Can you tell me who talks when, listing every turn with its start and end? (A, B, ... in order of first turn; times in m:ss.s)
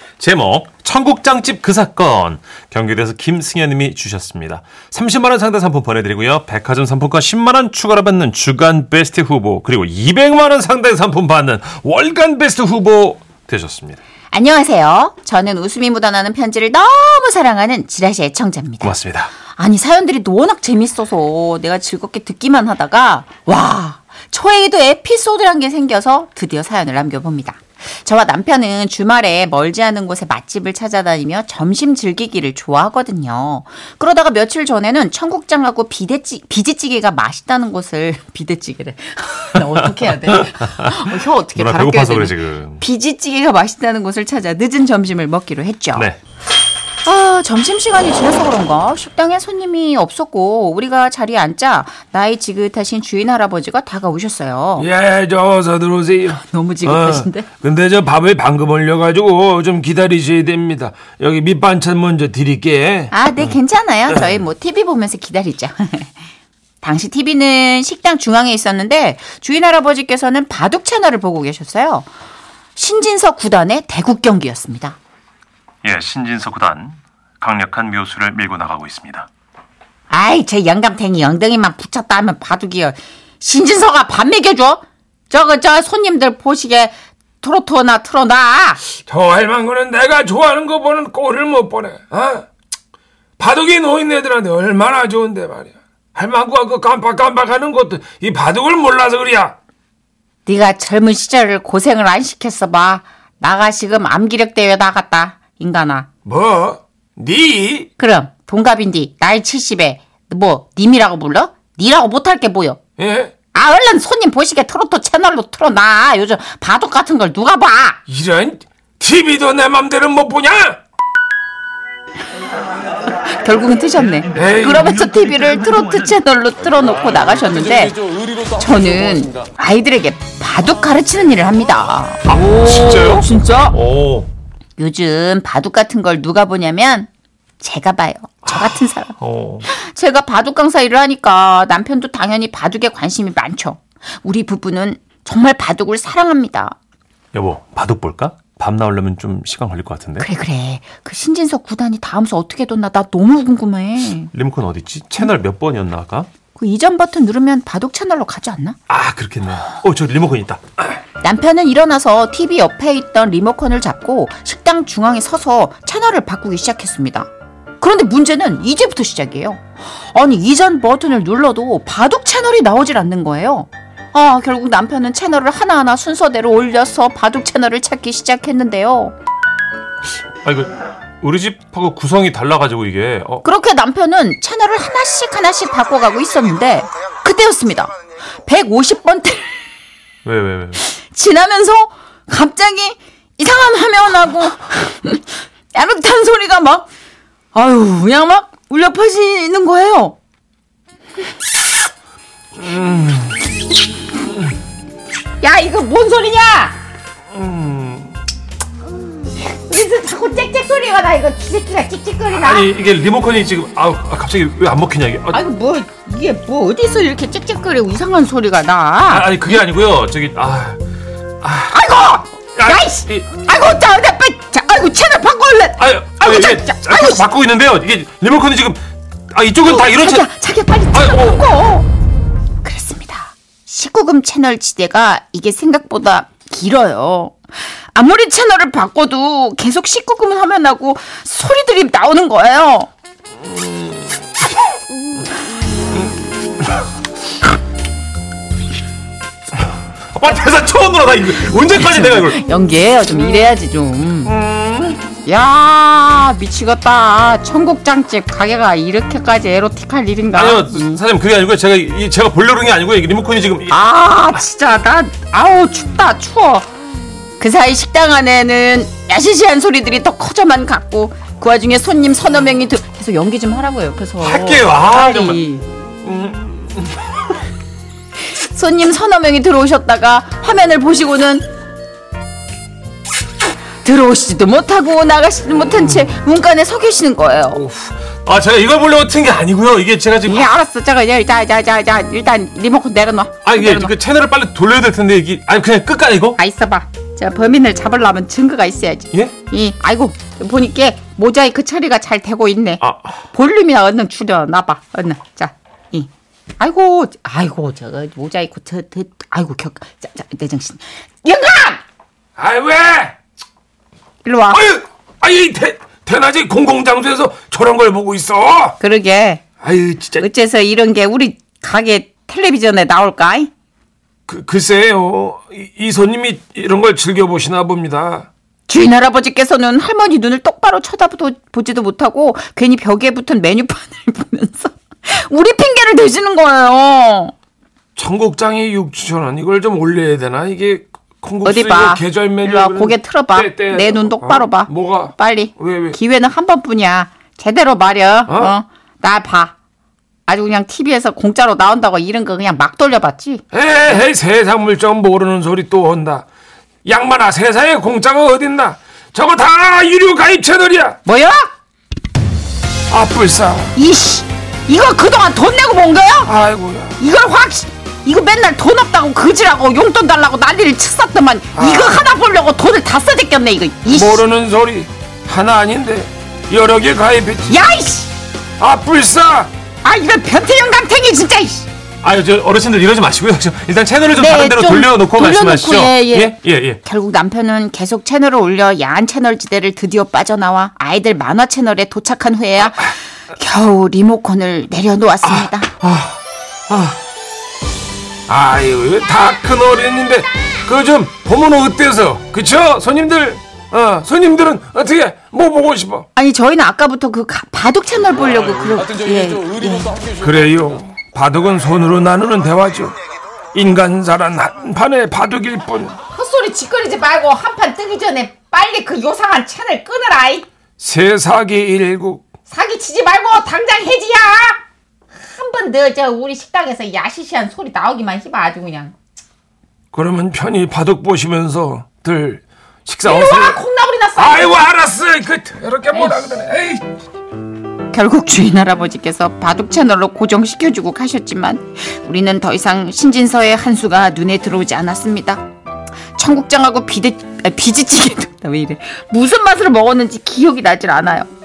0:00.2-0:14.0 A
0:14.3-0:46.1 B
0:18.8-0:19.3 A
0:39.7-0:42.8 A
0:47.0-0:54.9 B
0:54.8-1:03.1 C
0:56.3-0:57.4 B
1:03.1-1:06.1 B
1:06.8-1:12.1 B
1:12.8-1:15.0 B
1:15.8-1:19.3 A
1:20.1-1:28.8 B
1:29.1-1:32.4 C
1:33.4-1:39.5 C
1:40.4-1:46.1 B
1:46.2-1:47.9 C
1:48.0-1:52.8 B
1:53.0-1:53.3 C
1:53.5-1:58.0 B
1:58.1-2:00.8 C
2:03.2-2:13.8 B
2:04.4-2:05.0 C
2:12.3-2:14.3 A
2:14.8-2:17.1 B
2:17.6-2:19.1 B
2:18.5-2:19.7 A
2:19.6-2:26.7 B
2:27.3-2:30.3 A
2:30.2-2:34.3 B
2:34.3-2:36.3 A
2:36.5-2:38.8 B
2:38.9-2:41.0 A
2:41.2-2:47.3 B
2:47.8-2:59.1 B
3:00.4-3:03.4 A
3:03.4-3:09.5 B
3:10.2-3:10.8 A
3:10.8-3:16.9 B
3:17.5-3:20.2 B
3:23.0-3:23.3 C
3:25.4-3:26.8 B
3:27.4-3:27.9 C
3:29.4-3:32.7 B
3:32.3-3:35.4 A
3:35.3-3:39.3 B
3:39.1-3:40.8 A
3:41.4-3:41.8 A
3:41.6-3:47.2 B
3:42.6-3:43.2 A
3:45.8-3:50.3 A
3:49.6-3:51.9 B
3:50.9-3:51.5 A
3:52.6-3:57.4 B
3:57.9-4:02.9 B
4:10.1-4:12.4 A
4:11.7-4:14.3 B
4:14.3-4:15.0 A
4:15.2-4:21.0 B
4:20.3-4:23.8 A
4:23.7-4:26.7 B
4:27.4-4:35.6 B
4:34.2-4:35.4 A
4:36.0-4:37.0 A
4:38.3-4:41.5 B
4:43.8-4:47.6 B
4:45.7-4:46.1 A
4:47.8-4:50.5 A
4:50.2-4:53.9 B
4:53.4-4:56.4 A
4:56.4-5:11.8 B
5:02.8-5:03.2 A
5:12.4-5:13.1 C
5:14.2-5:14.6 B
5:14.5-5:18.8 C
5:18.8-5:19.4 B
5:19.6-5:20.2 C
5:20.2-5:23.5 B
5:24.3-5:28.3 C
5:28.7-5:37.3 B
5:38.0-5:46.0 C
5:41.4-5:49.5 B
5:48.3-5:48.5 C
5:50.2-5:53.4 B
5:53.5-5:56.2 C
5:56.8-6:01.0 C
6:01.0-6:01.5 B
6:02.9-6:03.7 C
6:03.7-6:06.3 B
6:06.2-6:07.0 C
6:07.0-6:14.2 B
6:11.6-6:12.0 C
6:13.9-6:17.5 C
6:17.5-6:18.1 B
6:18.6-6:19.5 C
6:19.8-6:21.7 B
6:22.0-6:26.8 A
6:24.2-6:35.7 B
6:35.8-6:36.2 C
6:36.7-6:37.0 C
6:38.3-6:46.0 C
6:46.1-6:50.0 B
6:50.1-6:53.0 C
6:53.5-6:56.0 C
6:56.1-7:00.5 B
7:00.8-7:02.2 C
7:02.5-7:04.6 B
7:05.2-7:08.9 B
7:09.9-7:13.6 C
7:13.0-7:14.6 B
7:14.2-7:16.8 C
7:15.9-7:16.2 B
7:17.9-7:25.4 B
7:26.1-7:31.3 B